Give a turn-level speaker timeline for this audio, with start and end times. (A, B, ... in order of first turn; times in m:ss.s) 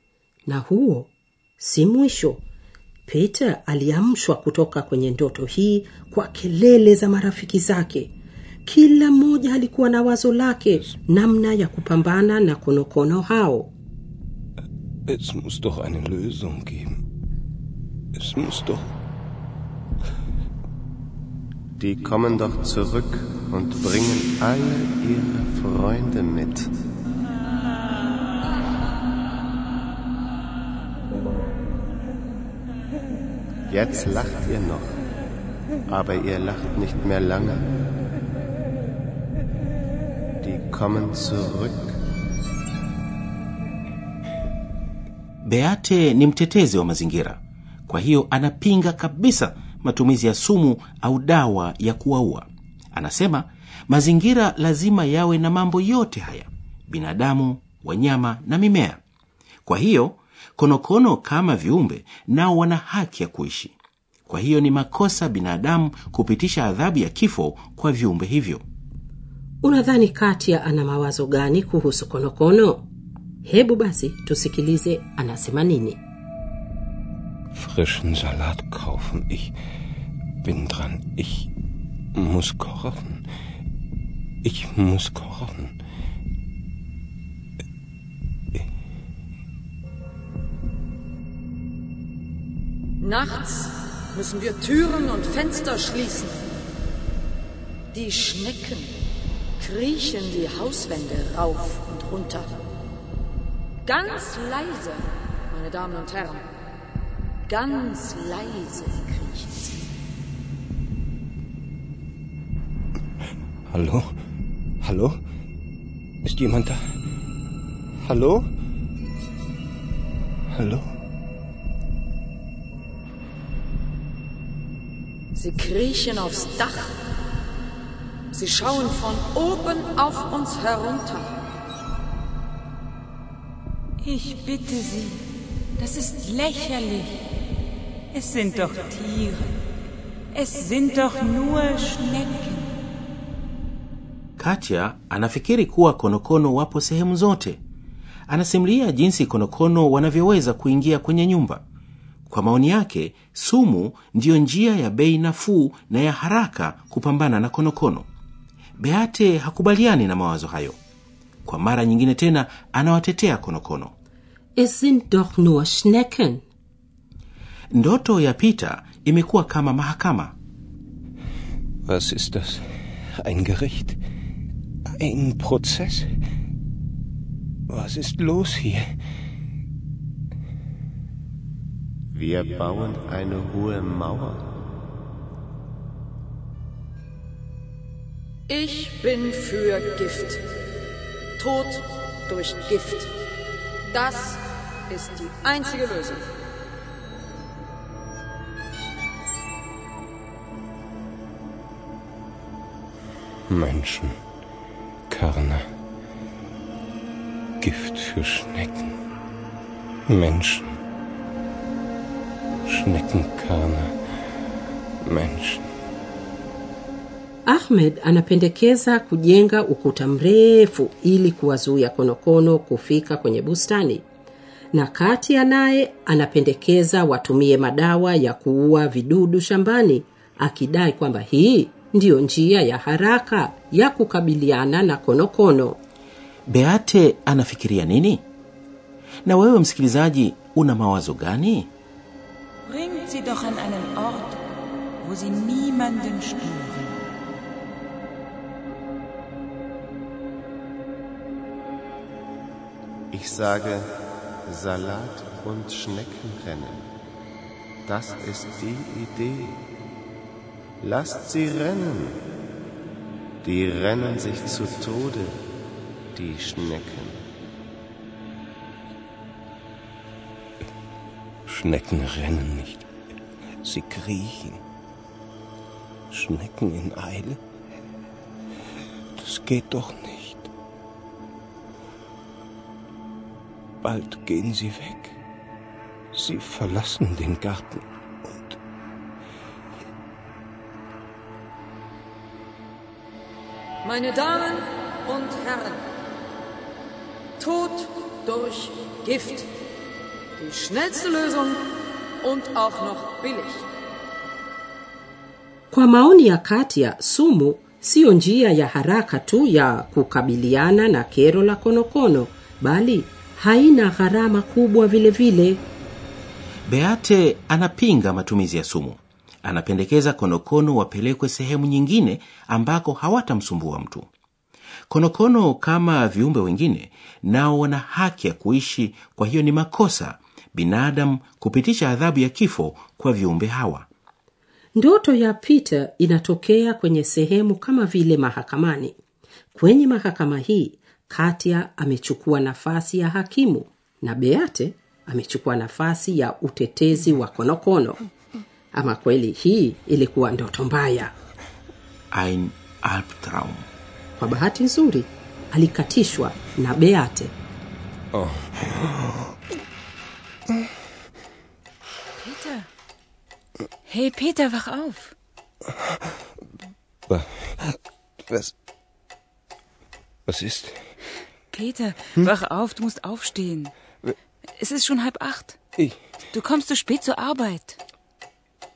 0:00.5-0:02.4 A
0:03.1-0:08.1 A
0:08.6-0:13.7 A
0:15.1-0:16.9 B
0:18.2-0:18.9 B
0:21.8-0:26.7 C
0:33.7-0:34.9 C
0:35.9-0:37.7 C
0:40.4-0:41.9 C
0:45.4-0:59.0 D
0:59.6-1:03.7 D
1:04.3-1:08.6 D
1:09.6-1:12.8 A
1:13.4-1:16.0 A
1:17.5-1:19.5 B
1:20.4-1:21.5 B
1:22.1-1:23.2 B
1:24.4-1:25.7 B
1:33.0-1:36.4 E
1:37.9-1:38.9 E
1:39.6-1:42.6 E
1:43.8-1:46.4 E
1:47.5-1:49.8 E
1:53.7-1:54.0 B
1:54.8-1:55.2 B
1:56.2-1:56.8 B
1:58.0-1:58.4 B
2:00.5-2:00.9 B
2:05.3-2:06.9 E
2:08.3-2:11.3 E
2:14.0-2:15.2 F
2:15.8-2:17.2 F
2:18.1-2:19.6 F
2:20.3-2:22.7 F
2:24.4-2:27.6 D
2:28.3-2:31.6 D
2:32.3-2:38.1 D
2:38.8-2:40.8 D
2:41.4-2:43.9 D
2:44.6-2:46.4 A
2:47.7-2:50.3 D
2:51.9-2:52.6 B
2:53.2-2:54.0 B
2:55.0-2:56.1 B
2:57.7-2:58.9 B
3:02.1-3:04.4 C
3:08.5-3:10.4 E
3:11.4-3:13.1 E
3:13.8-3:16.2 E
3:23.5-3:24.1 B
3:25.1-3:25.6 B
3:27.6-3:28.9 B
3:30.1-3:30.7 B
3:32.6-3:33.9 B
3:35.1-3:35.6 B
3:37.5-3:44.0 A
3:44.7-3:55.8 A
3:56.5-3:58.2 D
3:59.2-4:01.7 D
4:02.7-4:04.4 F
4:05.0-4:07.0 F
4:13.1-4:13.9 C
4:14.4-4:16.9 C
4:17.8-4:19.6 C
4:20.8-4:22.2 C
4:23.4-4:25.4 C
4:26.1-4:27.2 C
4:31.5-4:32.8 B
4:33.6-4:34.6 B
4:36.1-4:37.4 B
4:39.2-4:40.5 B
4:43.8-4:45.2 B
4:46.1-4:48.5 B
4:53.8-4:55.8 E
4:57.4-4:59.5 E
5:00.4-5:01.7 E
5:02.2-5:03.6 E
5:05.7-5:15.6 A
5:16.7-5:24.1 D
5:24.9-5:33.9 D
5:34.8-5:38.9 A
5:39.5-5:48.0 A
5:48.7-5:51.1 A
5:52.1-5:53.7 D
5:54.2-5:57.3 A
5:58.1-5:59.2 B
6:02.2-6:02.7 F
6:03.8-6:05.1 F
6:07.1-6:07.8 B
6:10.3-6:10.7 B
6:11.5-6:13.7 F
6:14.6-6:15.6 F
6:16.3-6:17.8 F